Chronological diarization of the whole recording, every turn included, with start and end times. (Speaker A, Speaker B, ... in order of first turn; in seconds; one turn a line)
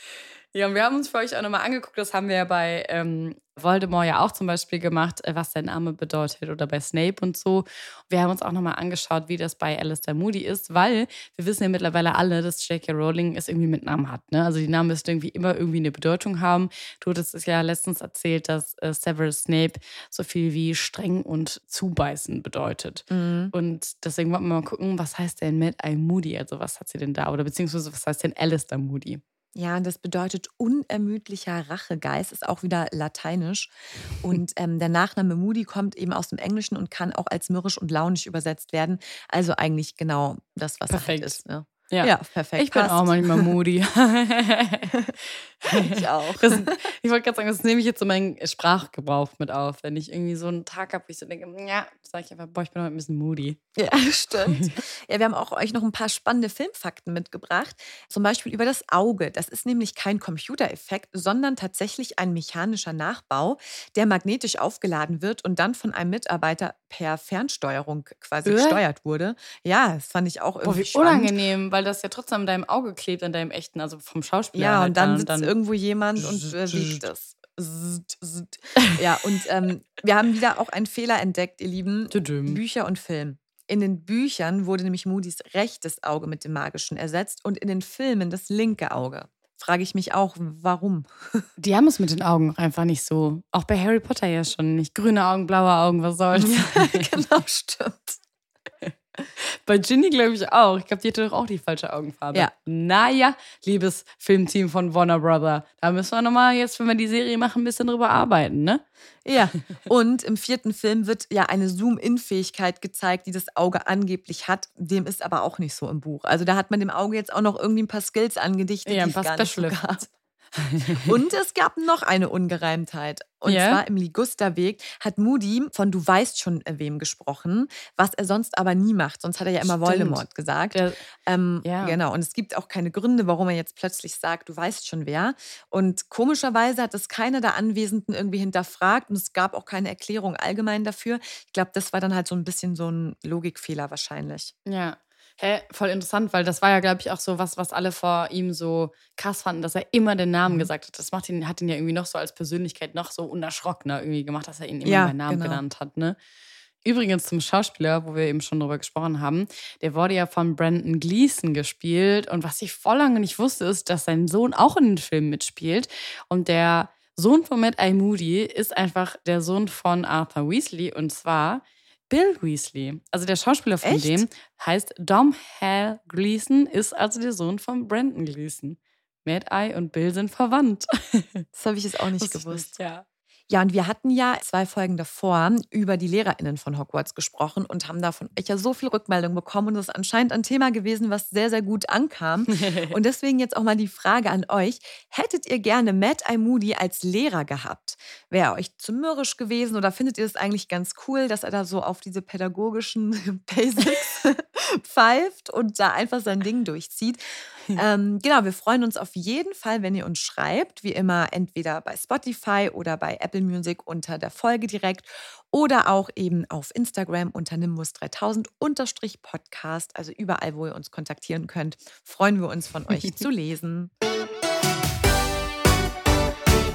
Speaker A: 0.5-29.2
Speaker B: 23.1-23.5
Speaker B: 29.5-43.5
Speaker A: 40.9-45.0
Speaker A: 45.6-53.6
Speaker B: 45.7-46.8
Speaker B: 53.8-71.3
Speaker A: 68.5-68.8
Speaker A: 70.6-75.5
Speaker B: 74.5-91.4
Speaker A: 76.2-77.1
Speaker A: 82.1-82.6
Speaker A: 91.6-97.1
Speaker B: 96.3-98.2
Speaker A: 98.9-108.8
Speaker B: 109.2-120.1
Speaker A: 118.9-119.8
Speaker A: 120.6-121.1
Speaker B: 120.9-144.5
Speaker A: 123.4-123.8
Speaker A: 129.6-130.2
Speaker A: 130.7-131.0
Speaker A: 131.6-132.0
Speaker A: 144.7-156.2
Speaker B: 154.8-155.6
Speaker A: 156.8-181.4
Speaker B: 173.8-174.2
Speaker B: 181.5-182.7
Speaker A: 182.2-183.0
Speaker B: 183.5-207.2
Speaker A: 192.5-192.9
Speaker B: 207.7-223.9